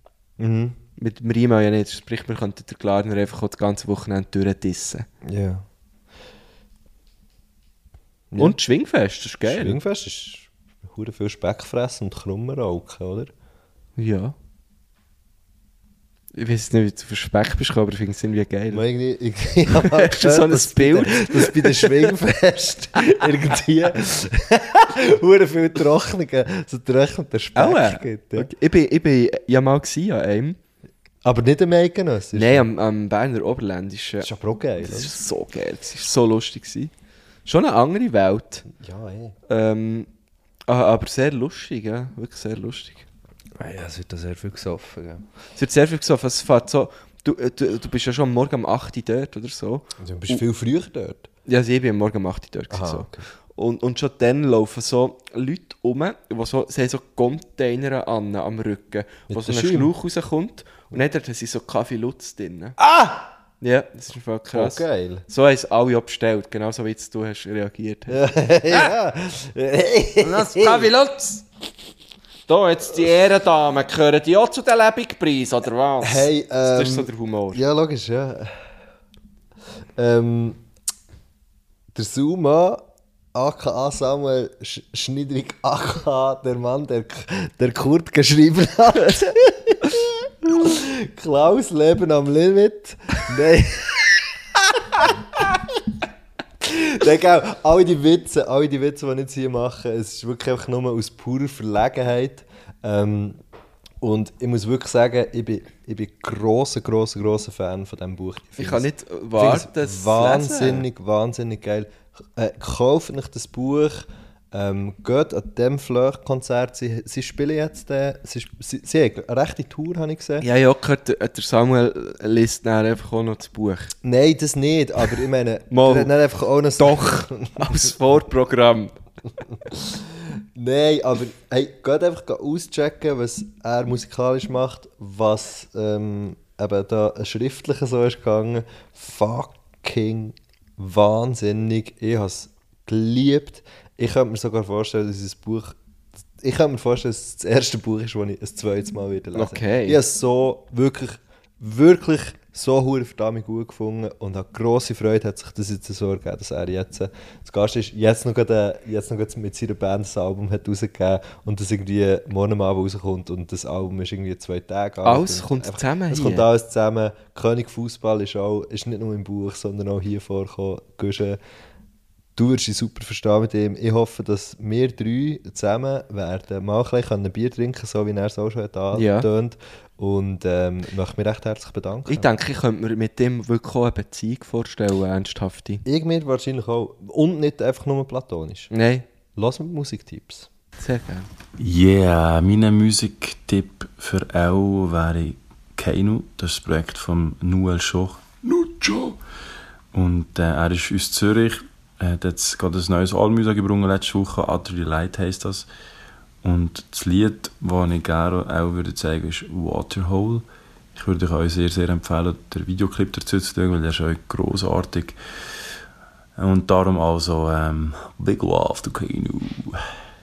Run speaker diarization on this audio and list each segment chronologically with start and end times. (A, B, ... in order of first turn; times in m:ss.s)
0:00.4-0:00.8 A
0:01.0-0:05.1 B
0:05.2-0:05.6 A
0:08.3-0:08.6 A
0:08.4-0:09.8 B
0:09.4-0:13.3 A
0:14.0-0:14.3 B
0:16.3-0:18.8 B
0:18.7-0:28.5 A
0:19.7-0:22.1 B
0:27.6-0:30.6 B
0:31.2-0:32.6 A
0:32.3-0:36.9 B
0:34.2-0:35.2 A
0:37.4-0:38.7 B
0:38.7-0:39.3 A
0:39.5-0:40.1 B
0:40.7-0:43.0 B
0:43.6-0:45.2 A
0:45.6-0:50.4 B
0:50.0-0:51.3 A
0:51.4-1:02.8 B
0:52.7-0:53.3 A
0:59.3-0:59.9 A
1:02.8-1:03.3 A
1:03.6-1:08.9 B
1:04.5-1:05.2 A
1:08.1-1:10.9 A
1:10.2-1:11.4 B
1:12.5-1:17.6 B
1:16.0-1:18.6 A
1:20.0-1:20.6 A
1:21.9-1:22.8 A
1:23.3-1:34.4 A
1:34.9-1:35.8 A
1:36.6-1:43.4 A
1:44.0-2:00.4 A
1:48.6-1:50.9 B
2:00.4-2:03.9 B
2:04.0-2:08.0 A
2:05.7-2:06.1 B
2:06.8-2:08.9 B
2:09.6-2:25.7 A
2:26.4-2:51.4 A
2:29.3-2:30.0 B
2:45.0-2:46.5 B
2:52.4-3:02.3 A
2:58.9-2:59.3 B
3:02.1-3:05.8 B
3:05.8-3:08.7 A
3:08.7-3:09.0 B
3:09.4-3:10.5 A
3:10.8-3:11.3 B
3:11.6-3:19.2 C
3:19.9-3:25.7 C
3:26.4-3:35.2 C
3:36.4-3:39.8 C